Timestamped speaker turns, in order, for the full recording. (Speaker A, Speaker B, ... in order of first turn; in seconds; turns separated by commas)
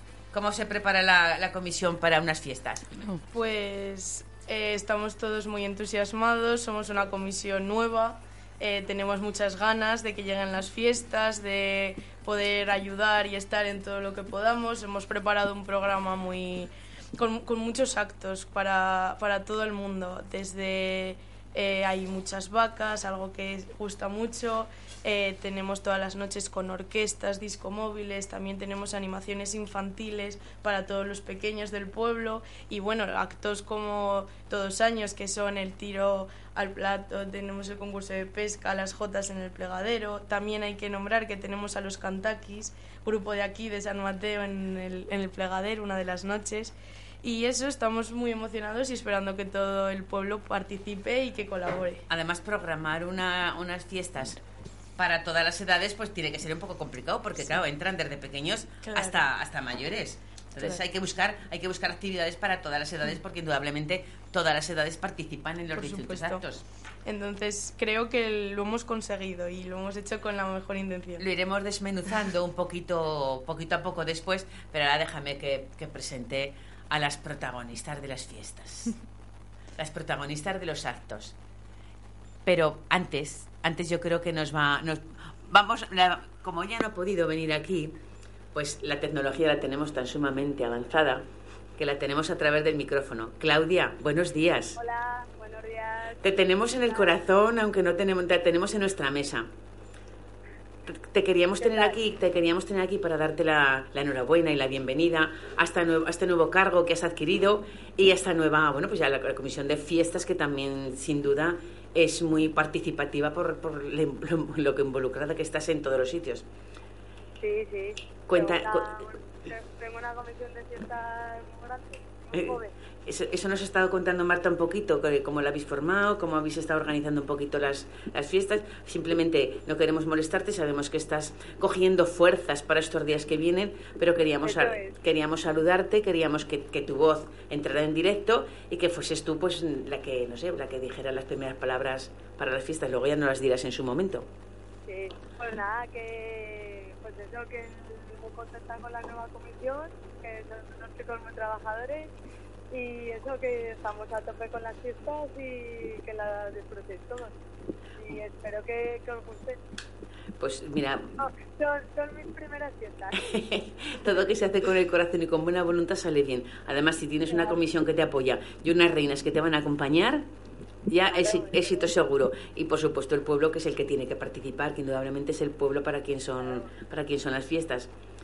Speaker A: 0.3-2.9, Speaker B: 3.3-52.0, Speaker A: 52.1-54.4, Speaker A: 55.0-66.6, Speaker B: 58.8-59.2, Speaker B: 65.7-66.4, Speaker B: 67.0-71.2, Speaker A: 71.2-79.0, Speaker A: 79.8-81.3, Speaker A: 82.4-88.0, Speaker A: 88.5-91.2, Speaker A: 91.8-94.8, Speaker C: 94.8-97.2, Speaker A: 96.2-99.5, Speaker A: 100.9-116.4, Speaker C: 101.6-102.0, Speaker C: 117.4-122.7, Speaker A: 118.3-119.1, Speaker A: 122.3-144.3, Speaker C: 134.4-134.9, Speaker C: 144.9-152.1, Speaker C: 152.7-157.3, Speaker C: 158.0-159.6, Speaker A: 160.4-161.1, Speaker C: 161.2-163.3, Speaker A: 163.2-170.3, Speaker C: 167.3-167.6, Speaker A: 170.9-177.9, Speaker C: 171.1-171.9, Speaker C: 176.4-176.7